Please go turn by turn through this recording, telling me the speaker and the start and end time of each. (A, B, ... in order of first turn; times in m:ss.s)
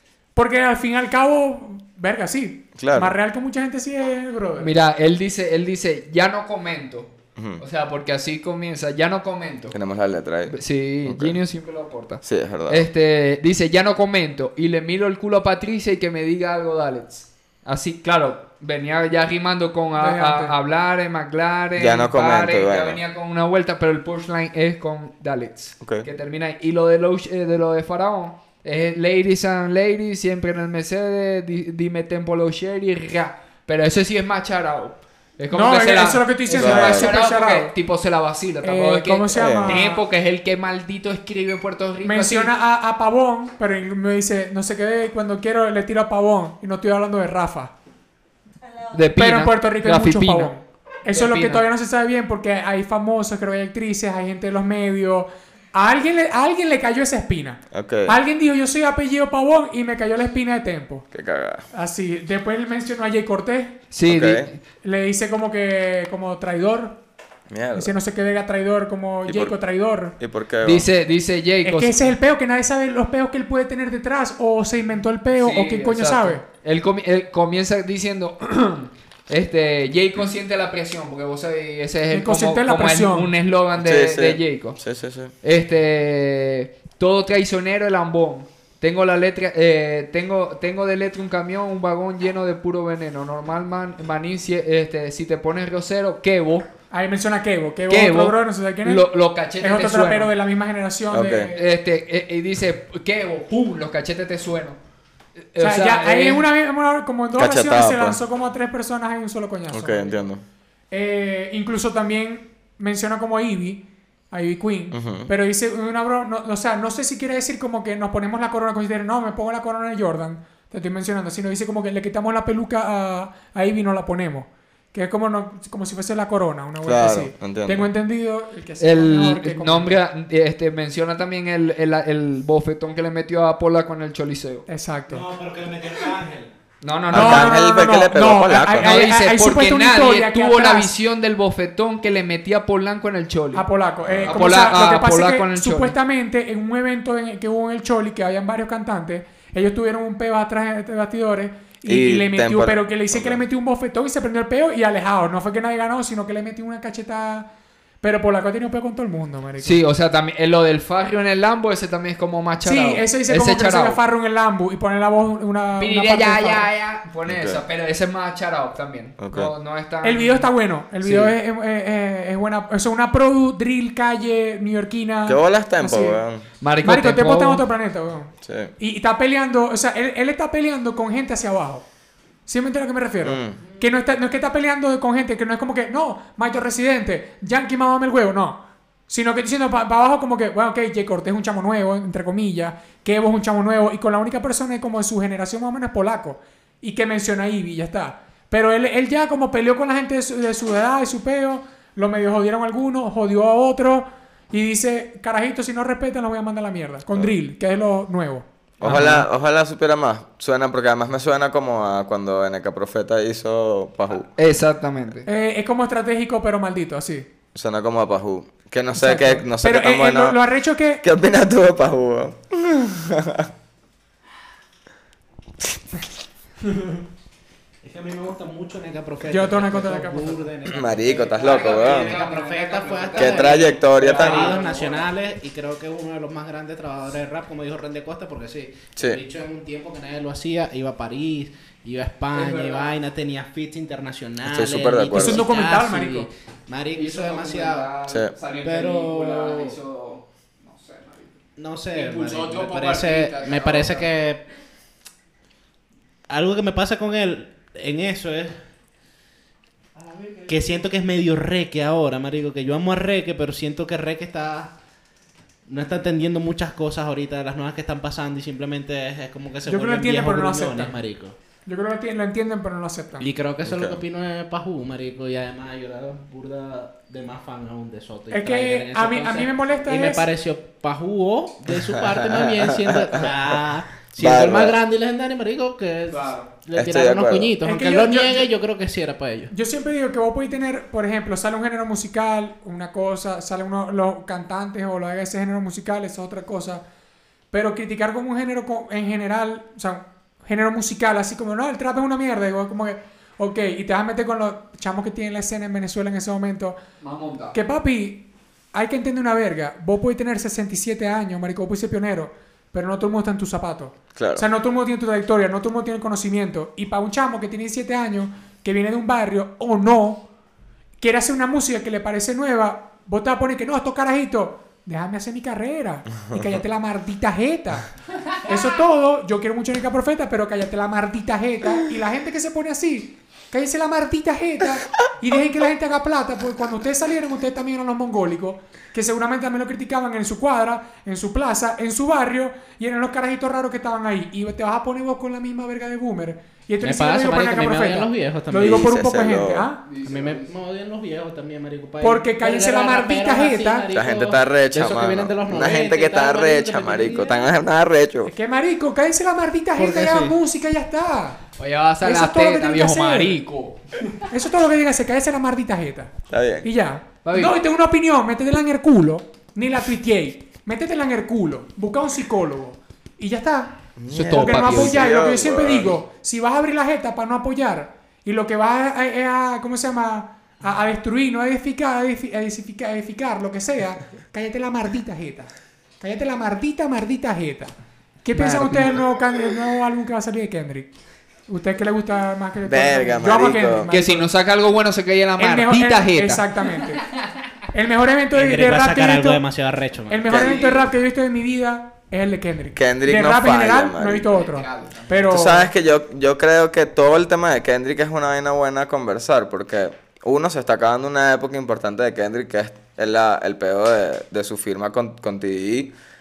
0:00.4-0:04.7 A
0:02.8-0:03.2 B
0:04.6-0:09.8 C
0:07.4-0:07.6 B
0:09.7-0:11.4 B
0:10.5-0:42.5 C
0:12.2-0:12.9 B
0:20.0-0:20.6 A
0:21.8-0:23.0 B
0:25.8-0:26.1 B
0:35.5-0:37.7 A
0:36.6-0:37.1 B
0:38.6-0:40.0 A
0:39.3-0:39.8 B
0:42.0-0:47.7 A
0:48.9-0:50.5 C
0:49.2-1:01.1 A
0:51.1-0:51.6 C
0:57.7-0:58.2 B
1:01.1-1:01.7 B
1:01.7-1:03.8 A
1:03.9-1:04.6 C
1:04.0-1:04.5 B
1:04.8-1:07.0 A
1:07.5-1:08.0 B
1:07.7-1:10.2 A
1:09.3-1:09.6 B
1:10.2-1:10.9 B
1:10.6-1:12.1 C
1:11.6-1:16.4 A
1:15.3-1:24.8 C
1:22.1-1:23.3 A
1:23.8-1:25.3 B
1:25.4-1:36.7 C
1:36.9-1:39.0 A
1:37.9-1:40.3 C
1:39.6-1:41.7 A
1:41.1-1:41.5 B
1:41.6-1:44.8 C
1:45.5-1:46.5 C
1:45.6-1:50.2 A
1:47.4-1:48.2 B
1:49.7-1:50.4 B
1:50.9-2:10.0 A
1:54.9-1:55.3 B
2:06.8-2:07.9 B
2:08.8-2:14.7 C
2:14.7-2:15.2 A
2:15.1-2:16.5 D
2:16.8-2:17.6 C
2:17.1-2:19.0 B
2:17.1-2:20.9 A
2:18.8-2:23.7 C
2:23.5-2:37.5 A
2:24.0-2:24.4 B
2:24.3-2:25.9 C
2:31.9-2:33.4 B
2:38.0-2:39.8 A
2:39.6-2:44.0 C
2:42.6-2:46.7 A
2:45.8-2:50.5 C
2:47.3-2:47.6 B
2:49.2-2:49.5 B
2:50.0-2:56.2 A
2:51.0-2:51.4 C
2:55.3-2:56.4 B
2:56.6-2:57.6 C
2:56.8-3:01.9 A
2:58.4-2:58.7 B
3:02.5-3:29.3 A
3:03.2-3:03.6 B
3:28.8-3:34.3 B
3:28.9-3:29.1 C
3:34.4-3:35.3 C
3:35.2-3:37.3 A
3:37.5-3:40.4 B
3:39.0-3:41.0 A
3:41.0-3:43.5 B
3:47.8-4:07.9 D
3:49.3-3:50.5 A
3:50.6-3:52.2 B
3:51.4-3:55.1 C
3:53.2-3:54.6 B
3:59.0-3:59.2 B
4:02.3-4:02.9 C
4:04.4-4:05.4 B
4:05.1-4:06.3 A
4:06.9-4:11.4 C
4:08.6-4:09.8 D
4:11.6-4:14.5 D
4:11.9-4:14.1 C
4:16.3-4:18.6 D
4:20.0-4:24.8 D
4:20.3-4:20.7 C
4:25.7-4:31.4 D
4:29.6-4:31.0 A
4:31.7-4:33.3 A
4:33.2-4:49.5 D
4:33.6-4:34.0 B
4:38.3-4:40.2 A
4:41.8-4:43.6 B
4:44.1-4:44.8 B
4:46.1-4:46.5 C
4:46.8-4:47.5 B
4:47.6-4:48.5 A
4:49.5-4:56.8 A
4:57.5-5:06.8 A
5:07.0-5:07.6 C
5:07.5-5:20.3 A
5:14.2-5:14.5 B
5:21.0-5:49.8 A
5:46.8-5:48.9 D
5:48.6-5:49.7 B
5:49.9-5:50.5 C
5:50.0-5:57.4 D
5:52.0-5:53.9 A
5:53.9-5:58.3 B
5:58.3-6:01.4 A
5:59.8-6:00.4 D
6:01.6-6:04.2 C
6:02.0-6:03.4 A
6:04.2-6:13.8 A
6:06.3-6:06.7 B
6:07.2-6:07.6 C
6:14.0-6:16.0 B
6:14.1-6:15.0 C
6:14.3-6:25.5 A
6:26.0-6:27.7 A
6:28.2-6:30.9 A
6:28.4-6:29.0 C
6:31.5-6:34.3 A
6:32.7-6:33.9 B
6:33.9-6:36.5 C
6:35.4-6:37.0 A
6:37.7-6:39.4 A
6:38.3-6:40.6 D
6:40.1-6:45.7 A
6:40.3-6:40.6 B
6:40.4-6:40.8 C
6:42.8-6:44.3 B
6:44.3-6:45.1 C
6:45.3-6:55.9 B